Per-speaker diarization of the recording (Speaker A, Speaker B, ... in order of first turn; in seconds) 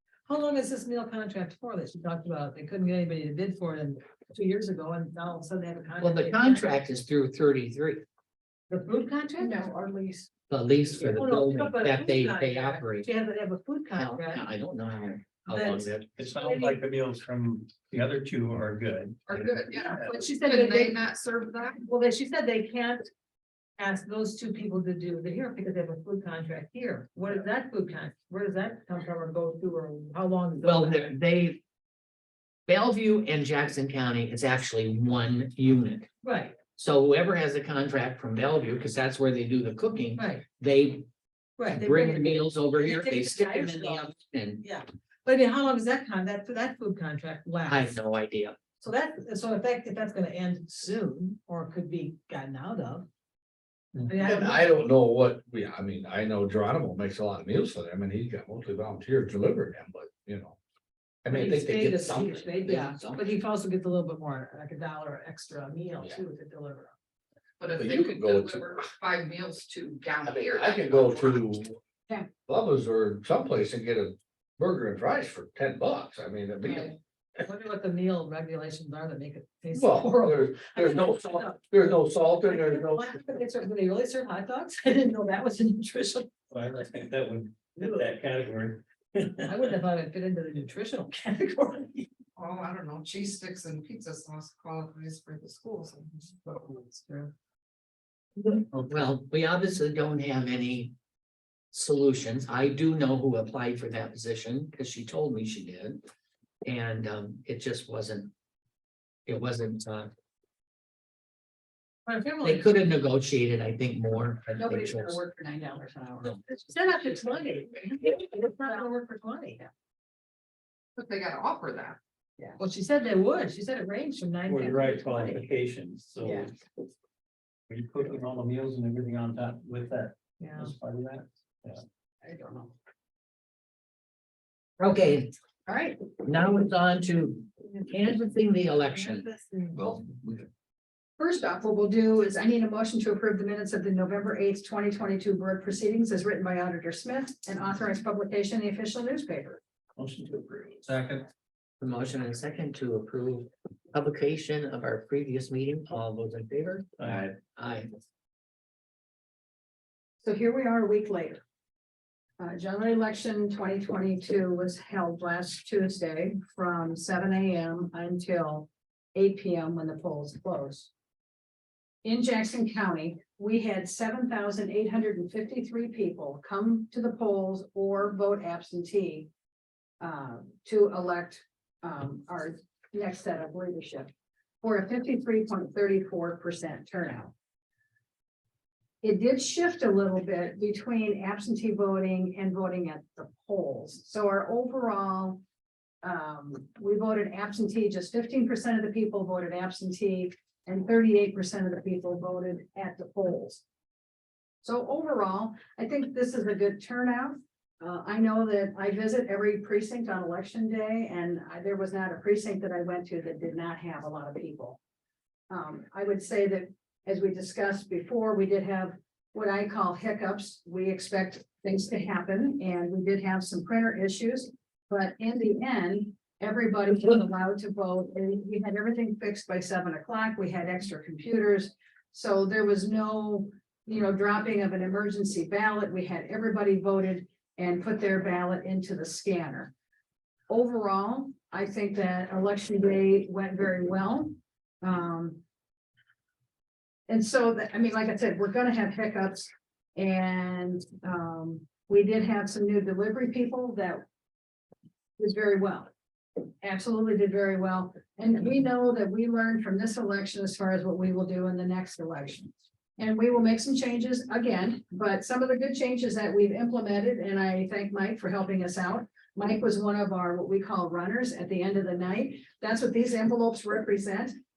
Speaker A: 0.2-6.7, 8.7-9.6, 10.9-14.5, 15.5-16.8, 19.7-21.0, 21.8-23.1, 23.8-31.1, 36.2-36.6, 40.2-40.4, 41.6-44.1, 44.6-47.9, 48.8-53.1, 54.0-54.8, 61.3-66.9, 77.4-81.6, 82.5-86.3, 89.5-92.1, 112.0-112.7, 116.5-119.7, 122.6-125.4, 130.4-130.7, 138.9-139.8
Speaker B: 6.0-8.0, 10.5-13.1, 13.9-16.1, 30.6-31.6, 32.7-36.1, 36.8-41.0, 41.7-44.6, 47.6-48.6, 61.8-63.3, 98.4-100.9, 101.7-106.0, 106.6-108.3, 109.2-110.1, 112.4-115.2, 134.8-135.3, 136.2-139.2, 151.8-157.9
Speaker C: 9.4-10.3, 114.5-116.4, 126.2-126.5, 132.2-132.7, 135.7-136.1, 141.2-149.6, 160.2-161.4, 162.4-170.9, 172.0-179.3, 180.0-184.1, 184.6-187.3, 189.0-195.4, 196.0-203.6, 204.6-214.8, 215.5-239.7, 240.5-245.4, 247.1-254.0, 255.2-274.3
Speaker D: 16.2-19.5, 86.5-89.7, 124.5-126.5, 127.7-131.8, 149.9-151.3, 157.0-157.3
Speaker E: 19.3-21.8, 67.6-71.4, 92.4-97.3, 121.0-122.0
Speaker F: 54.1-60.6, 61.2-62.4, 67.8-68.7, 70.2-71.8, 72.5-76.9, 79.7-83.1, 139.7-140.5